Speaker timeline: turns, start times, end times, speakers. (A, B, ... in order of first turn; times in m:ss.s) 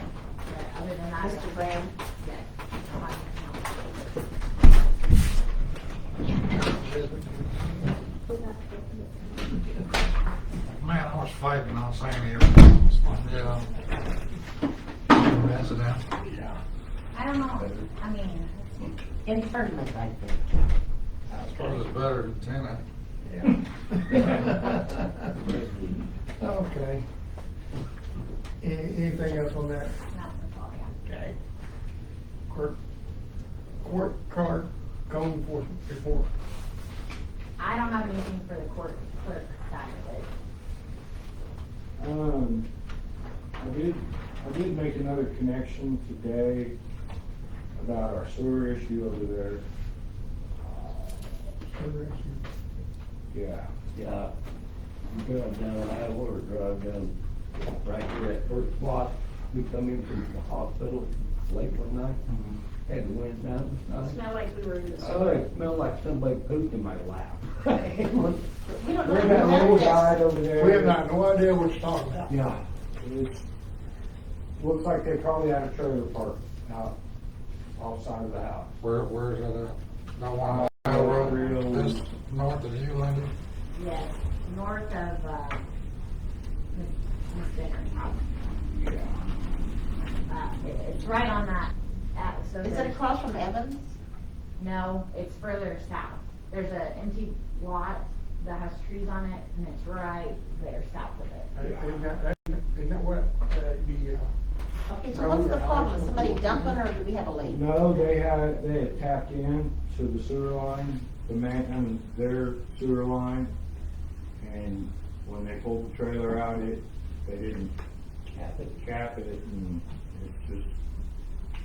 0:00.4-0:01.6 A
0:01.2-0:01.9 B
0:02.2-0:04.1 A
0:06.7-0:07.8 C
0:10.8-0:13.6 D
0:15.1-0:16.0 D
0:16.2-0:16.6 C
0:17.1-0:18.9 A
0:17.6-0:17.9 E
0:19.2-0:20.4 B
0:21.3-0:22.8 D
0:23.2-0:25.3 C
0:26.4-0:27.0 C
0:28.6-0:29.9 C
0:30.1-0:30.9 A
0:31.0-0:31.4 C
0:32.5-0:32.8 C
0:33.8-0:36.3 C
0:37.6-0:40.3 A
0:42.0-0:42.7 F
0:43.6-0:46.8 F
0:47.8-0:49.6 F
0:50.6-0:51.4 F
0:51.7-0:52.4 C
0:53.3-0:53.7 F
0:53.9-0:54.3 E
0:55.1-1:02.2 E
1:02.3-1:02.6 F
1:02.8-1:04.2 E
1:04.0-1:05.4 A
1:05.0-1:08.4 E
1:08.7-1:10.2 B
1:09.0-1:11.0 F
1:10.6-1:12.3 C
1:13.0-1:13.4 F
1:14.6-1:17.0 F
1:17.8-1:18.7 F
1:18.8-1:23.3 D
1:20.4-1:22.0 F
1:21.0-1:21.6 A
1:23.7-1:25.6 A
1:26.7-1:28.2 A
1:28.7-1:29.2 F
1:30.3-1:33.0 A
1:32.6-1:34.0 B
1:34.6-1:41.5 A
1:41.5-1:44.3 C
1:44.8-1:47.7 B
1:45.1-1:46.8 C
1:47.4-1:53.5 F
1:54.4-1:57.7 F
1:58.3-2:00.7 F